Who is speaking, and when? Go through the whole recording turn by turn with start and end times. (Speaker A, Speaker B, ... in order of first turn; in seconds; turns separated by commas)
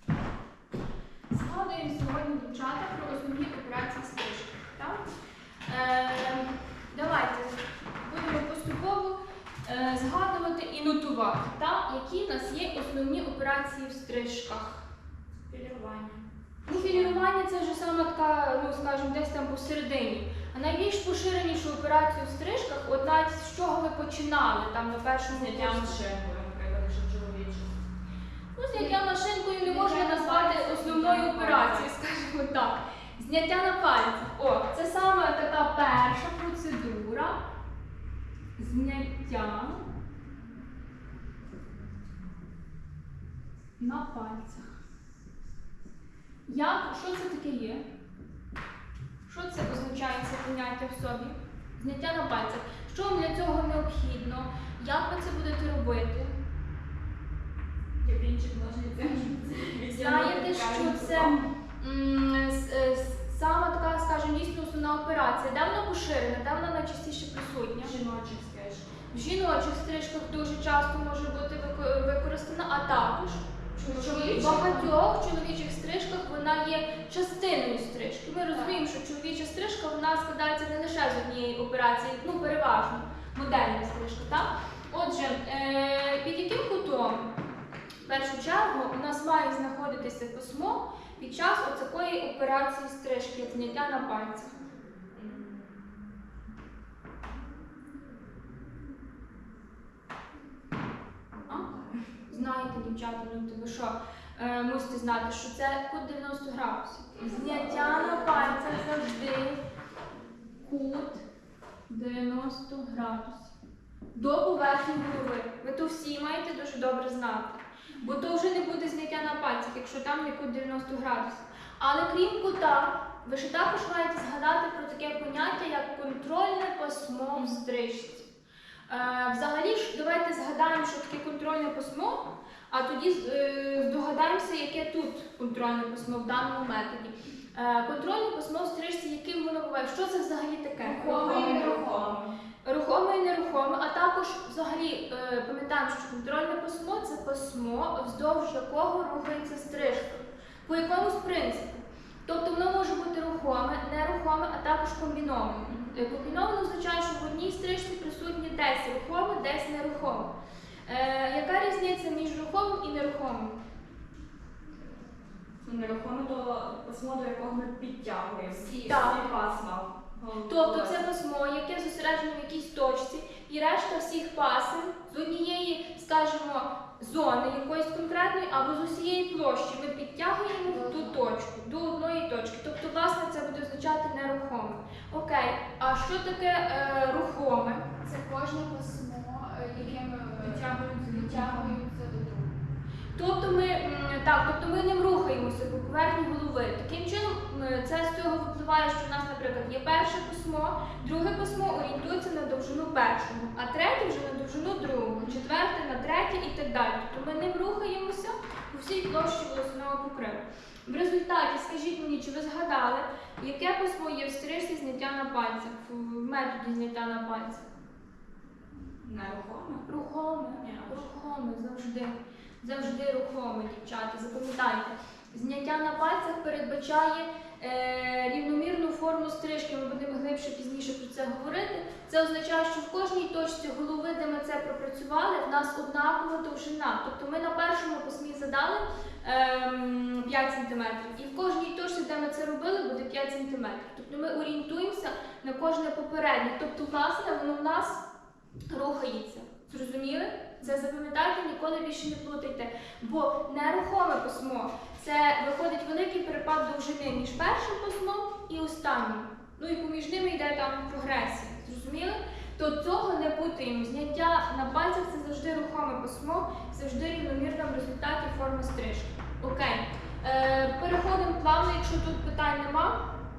Speaker A: 1.3-5.0, Speaker A: 5.7-14.8, Speaker B: 15.5-17.3, Speaker A: 16.7-26.1, Speaker B: 25.3-27.8, Speaker A: 28.6-37.4, Speaker C: 29.6-31.4, Speaker B: 30.9-31.9, Speaker A: 38.6-39.9, Speaker A: 43.8-44.7, Speaker A: 46.5-47.8, Speaker A: 49.2-56.3, Speaker B: 58.0-61.5, Speaker A: 59.9-68.0, Speaker B: 67.8-68.9, Speaker A: 69.1-87.3, Speaker B: 73.8-74.9, Speaker A: 88.0-94.5, Speaker B: 95.1-95.9, Speaker A: 101.5-109.6, Speaker B: 107.2-109.0, Speaker A: 110.6-111.2, Speaker A: 111.9-113.5, Speaker A: 114.2-128.3, Speaker A: 128.9-142.1, Speaker B: 140.8-142.3, Speaker C: 140.9-142.2, Speaker A: 142.6-160.3, Speaker B: 155.7-156.2, Speaker A: 160.9-163.6, Speaker B: 165.6-171.0, Speaker C: 168.7-169.4, Speaker A: 168.8-169.3, Speaker A: 170.5-187.9, Speaker C: 180.7-181.2, Speaker C: 188.0-192.6, Speaker A: 190.4-191.8, Speaker A: 193.2-217.7, Speaker B: 219.0-219.9, Speaker A: 219.9-248.0, Speaker B: 220.6-221.1, Speaker A: 248.7-273.0